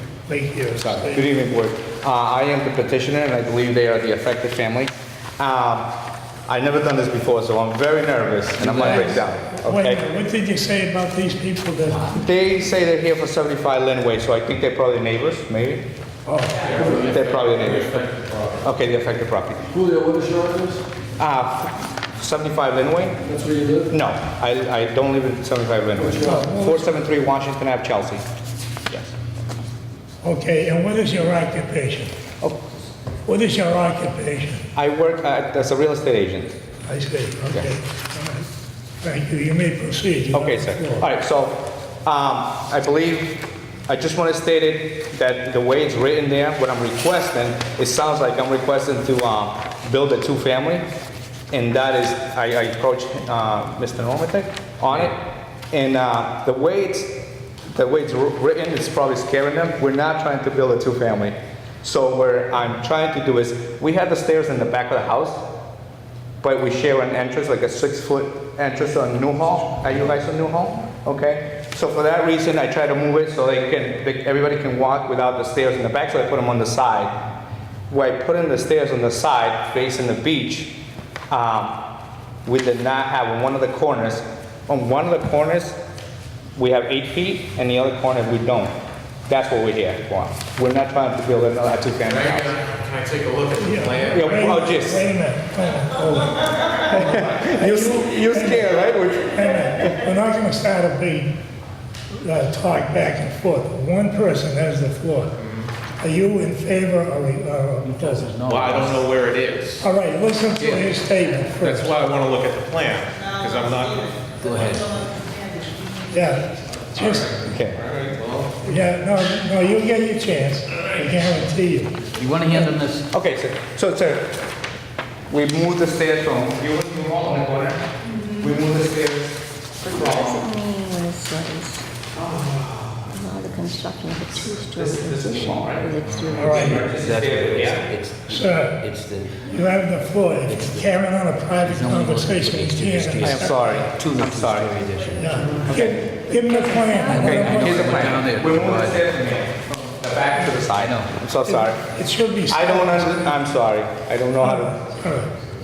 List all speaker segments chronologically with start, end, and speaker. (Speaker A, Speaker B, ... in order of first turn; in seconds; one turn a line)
Speaker A: 0.3-1.3
Speaker B: 0.8-5.9
Speaker B: 6.5-10.1
Speaker C: 8.6-9.2
Speaker A: 8.7-12.2
Speaker C: 11.8-12.2
Speaker B: 12.1-15.8
Speaker A: 16.2-16.7
Speaker D: 16.5-18.6
Speaker E: 16.7-17.2
Speaker B: 16.8-18.0
Speaker B: 18.6-19.6
Speaker E: 19.7-20.8
Speaker B: 21.2-23.2
Speaker E: 23.2-24.0
Speaker B: 23.9-28.2
Speaker E: 25.9-26.5
Speaker A: 26.2-27.0
Speaker A: 30.2-32.1
Speaker A: 33.2-34.6
Speaker B: 34.7-36.6
Speaker A: 36.9-38.5
Speaker A: 39.0-41.0
Speaker B: 40.3-50.9
Speaker B: 51.5-55.2
Speaker B: 55.7-57.1
Speaker B: 57.7-65.4
Speaker B: 66.4-77.1
Speaker B: 77.9-80.8
Speaker B: 81.3-81.8
Speaker B: 82.4-85.8
Speaker B: 86.5-88.7
Speaker B: 89.3-92.5
Speaker D: 92.1-94.3
Speaker A: 93.5-101.3
Speaker B: 94.1-95.0
Speaker B: 96.9-99.9
Speaker A: 102.1-105.3
Speaker D: 105.4-105.7
Speaker A: 106.0-108.4
Speaker C: 107.8-109.1
Speaker D: 108.4-109.9
Speaker A: 109.8-112.1
Speaker D: 111.6-114.1
Speaker C: 114.4-115.0
Speaker A: 116.1-117.3
Speaker D: 117.0-118.5
Speaker B: 117.5-117.8
Speaker A: 118.6-122.0
Speaker C: 122.2-123.0
Speaker B: 122.5-124.4
Speaker B: 125.3-130.5
Speaker F: 129.8-131.8
Speaker B: 132.1-133.1
Speaker F: 133.1-136.8
Speaker B: 134.7-135.9
Speaker D: 136.0-136.4
Speaker A: 136.3-136.8
Speaker C: 136.4-139.5
Speaker B: 136.4-137.9
Speaker A: 138.3-138.8
Speaker A: 139.4-143.9
Speaker C: 140.5-145.8
Speaker B: 143.2-144.7
Speaker A: 145.2-148.2
Speaker B: 145.6-146.1
Speaker F: 146.4-147.6
Speaker C: 146.9-149.0
Speaker B: 147.1-151.9
Speaker C: 150.8-151.1
Speaker A: 151.4-153.3
Speaker B: 152.5-154.8
Speaker A: 154.4-155.3